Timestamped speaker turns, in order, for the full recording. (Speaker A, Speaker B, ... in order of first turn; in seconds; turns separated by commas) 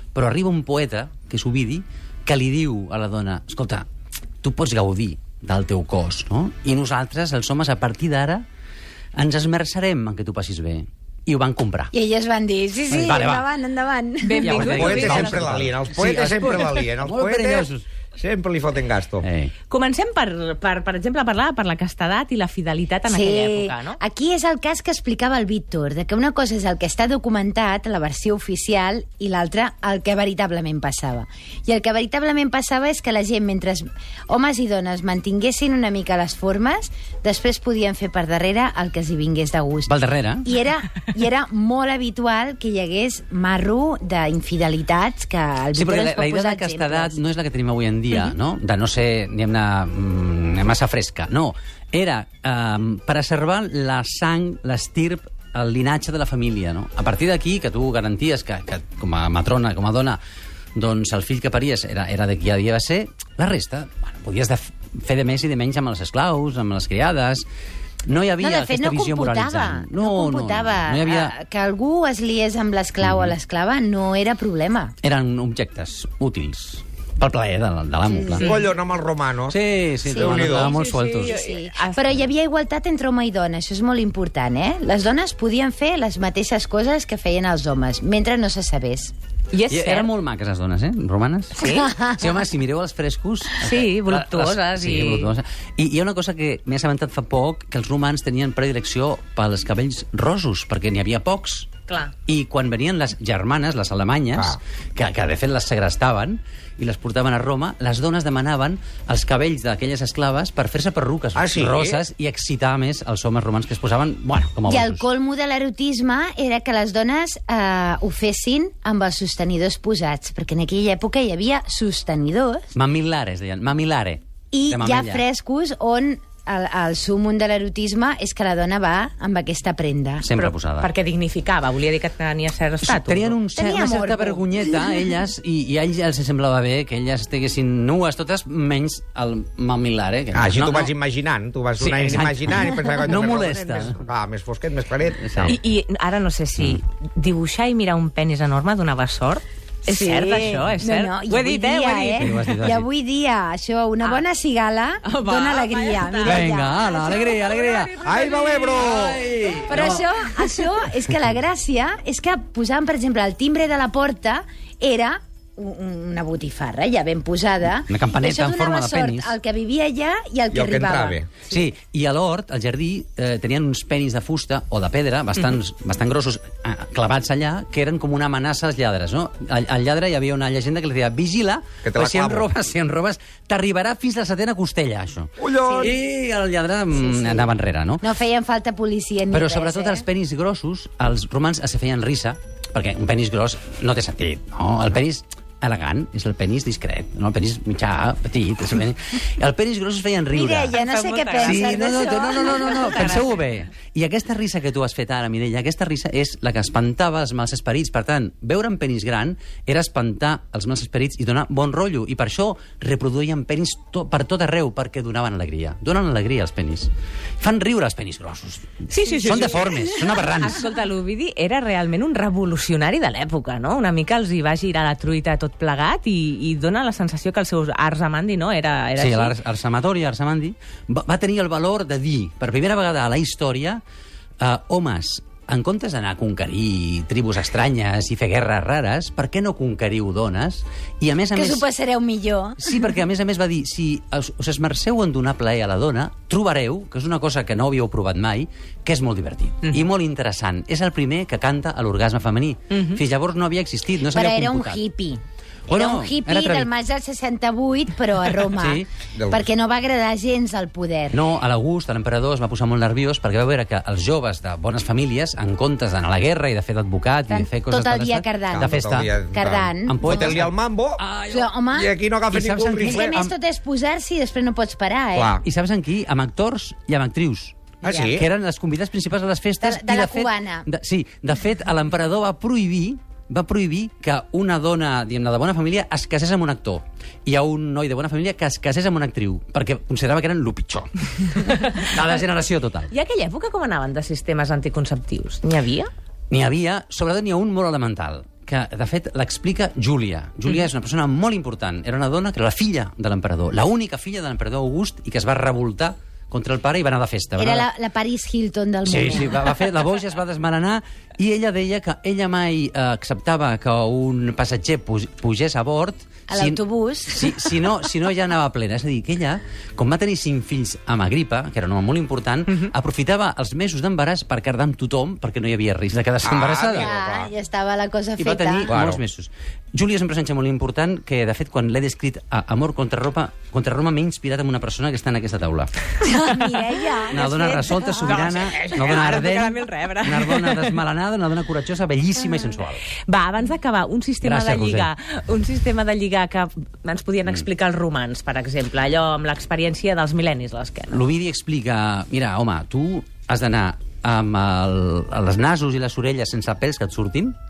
Speaker A: 0.1-3.9, Speaker A: 4.4-8.4, Speaker A: 9.2-11.9, Speaker B: 11.9-14.5, Speaker A: 12.9-13.5, Speaker C: 14.2-15.5, Speaker A: 14.4-17.9, Speaker D: 14.5-19.3, Speaker C: 16.2-16.7, Speaker A: 19.2-19.5, Speaker C: 19.7-24.0, Speaker B: 23.1-47.2, Speaker A: 39.9-40.5, Speaker A: 45.8-60.2, Speaker A: 60.8-67.5, Speaker A: 68.1-71.3, Speaker B: 68.4-74.9, Speaker A: 73.0-73.3, Speaker A: 75.0-78.5, Speaker B: 78.1-78.7, Speaker C: 78.3-78.7, Speaker D: 78.4-79.6, Speaker A: 79.5-81.5, Speaker B: 80.0-89.1, Speaker D: 80.1-80.7, Speaker C: 80.6-82.2, Speaker C: 89.5-90.1, Speaker A: 89.7-101.7, Speaker C: 91.6-92.0, Speaker B: 91.6-92.3, Speaker C: 93.6-95.3, Speaker C: 101.9-102.1, Speaker A: 102.3-115.0, Speaker D: 111.3-112.0, Speaker B: 114.7-122.7, Speaker A: 122.8-125.2, Speaker B: 124.5-130.3, Speaker A: 130.2-130.9, Speaker C: 130.3-133.4, Speaker A: 132.8-140.9, Speaker B: 133.6-134.8, Speaker D: 140.3-145.6, Speaker A: 141.8-144.0, Speaker A: 145.2-145.6, Speaker C: 145.4-152.5, Speaker B: 149.9-156.9, Speaker A: 152.2-152.9, Speaker C: 155.0-159.0, Speaker A: 156.2-158.0, Speaker D: 158.0-159.3, Speaker A: 158.7-160.1, Speaker B: 159.7-171.2, Speaker A: 167.9-169.3, Speaker D: 170.5-171.3, Speaker A: 171.5-188.1, Speaker D: 181.8-182.5, Speaker D: 185.4-185.9, Speaker B: 185.6-185.9, Speaker B: 187.1-187.5, Speaker B: 188.0-190.1, Speaker A: 189.3-200.8, Speaker B: 200.3-203.1, Speaker C: 200.7-203.4, Speaker A: 201.4-220.7, Speaker C: 218.9-229.4, Speaker A: 229.0-233.8, Speaker A: 234.4-241.7, Speaker B: 241.3-242.9, Speaker A: 242.6-254.8, Speaker C: 252.7-253.0, Speaker B: 254.1-261.2, Speaker A: 255.7-256.7, Speaker A: 258.6-258.9, Speaker D: 259.1-259.4, Speaker A: 261.1-269.1, Speaker B: 267.3-268.8, Speaker D: 268.5-271.0, Speaker B: 269.3-270.5, Speaker A: 269.8-271.5, Speaker B: 271.3-271.9, Speaker D: 271.7-273.2, Speaker A: 272.3-273.3, Speaker B: 272.8-275.4, Speaker D: 275.1-275.4, Speaker A: 275.4-292.9, Speaker D: 277.8-278.3, Speaker B: 277.9-278.1, Speaker B: 279.6-280.7, Speaker C: 291.4-292.2, Speaker C: 292.9-295.9, Speaker A: 296.3-307.7, Speaker B: 307.4-309.4, Speaker A: 308.9-326.9, Speaker B: 316.3-317.6, Speaker D: 326.2-327.3, Speaker B: 326.7-328.7, Speaker A: 328.2-335.7, Speaker D: 328.7-329.0, Speaker B: 336.0-338.2, Speaker A: 337.1-342.8, Speaker C: 338.0-340.8, Speaker D: 338.1-339.1, Speaker C: 343.0-351.1, Speaker A: 344.2-344.9, Speaker A: 350.9-357.4